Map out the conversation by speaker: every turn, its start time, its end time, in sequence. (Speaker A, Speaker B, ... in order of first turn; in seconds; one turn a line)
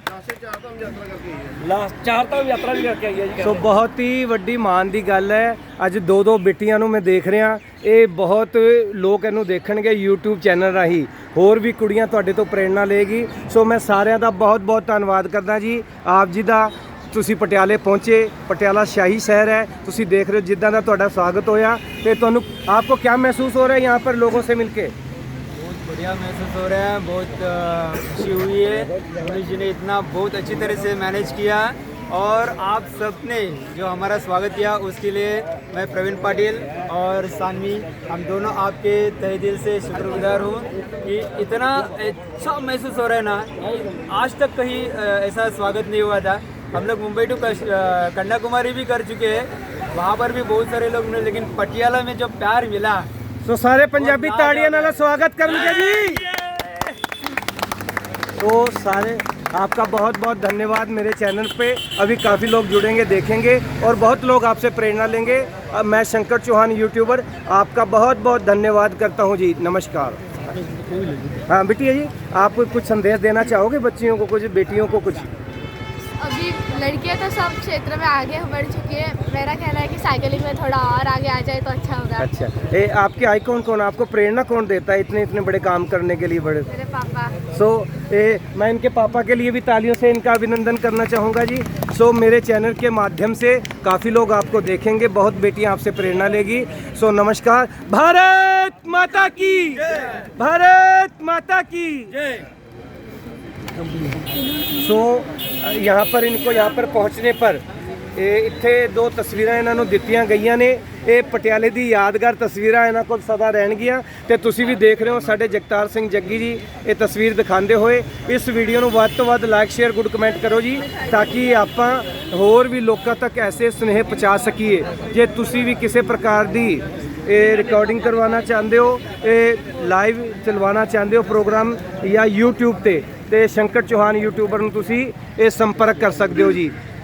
Speaker A: 1.6-3.6
Speaker B: 3.4-24.9
Speaker C: 25.5-53.1
Speaker B: 53.4-56.5
Speaker C: 54.0-54.9
Speaker B: 58.4-70.2
Speaker B: 71.5-75.3
Speaker D: 76.2-82.2
Speaker B: 82.2-86.7
Speaker D: 86.7-87.3
Speaker B: 87.5-102.3
Speaker B: 104.8-107.6
Speaker B: 108.1-136.7